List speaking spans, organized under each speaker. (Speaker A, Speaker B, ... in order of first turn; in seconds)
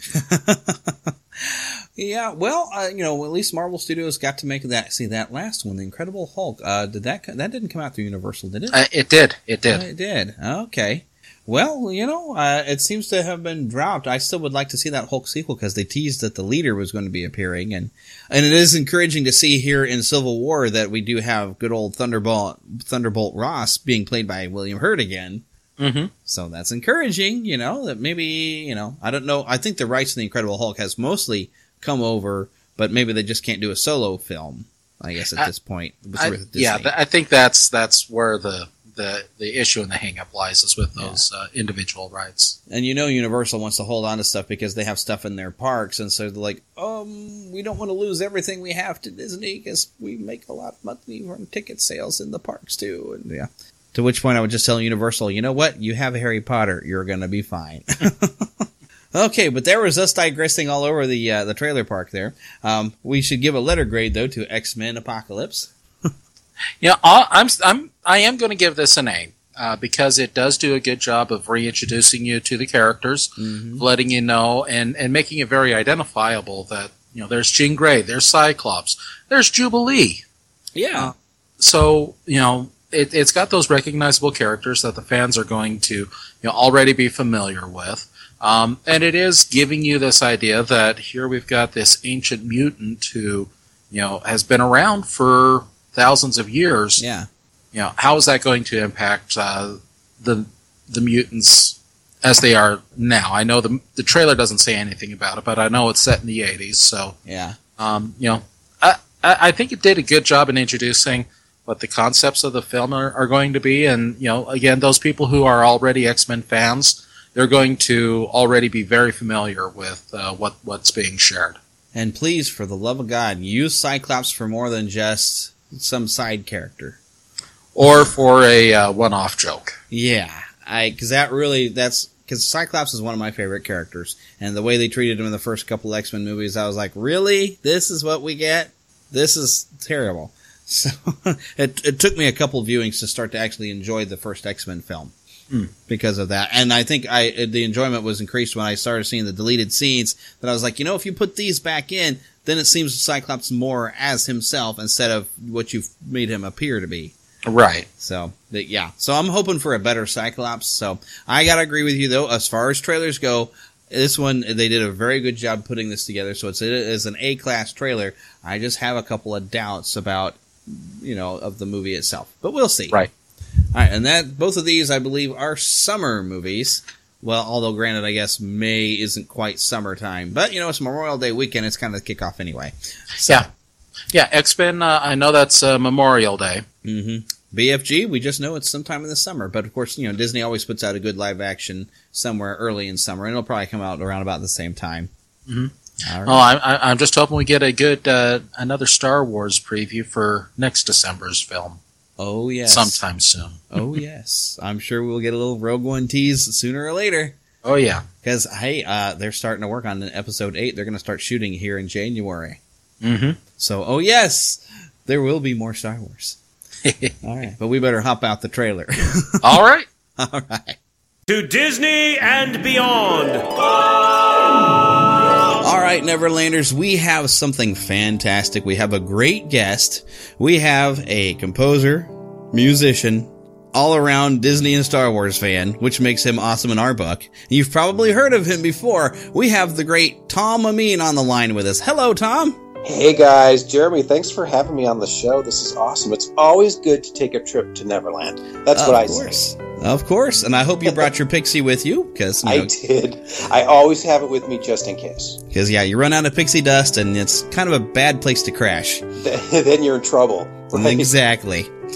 Speaker A: 0.1-8.8, 9.7-25.4, 26.2-36.9, 41.0-41.2, 42.7-58.5, 59.1-65.7, 73.4-73.8, 80.7-81.1, 97.0-97.3, 107.2-107.6, 121.9-127.0, 129.9-145.1, 145.9-157.1, 158.0-173.0, 173.7-183.4, 186.8-195.1, 196.0-196.4, 202.2-203.0, 203.7-207.3, 208.2-212.6, 213.6-216.4, 217.2-219.3, 220.2-220.8, 225.6-242.6, 248.7-252.7, 255.5-259.0, 260.7-261.7
Speaker B: 8.7-9.9, 25.8-26.1, 36.2-42.6, 66.8-80.2, 80.9-97.0, 97.7-107.2, 107.8-121.6, 127.8-129.8, 157.4-157.9, 184.1-186.6, 195.5-195.7, 196.2-201.8, 202.7-204.0, 207.6-208.0, 213.0-213.4, 216.8-217.1, 219.4-219.9
Speaker C: 221.3-224.4
Speaker D: 242.8-249.4, 252.4-255.4, 259.2-261.1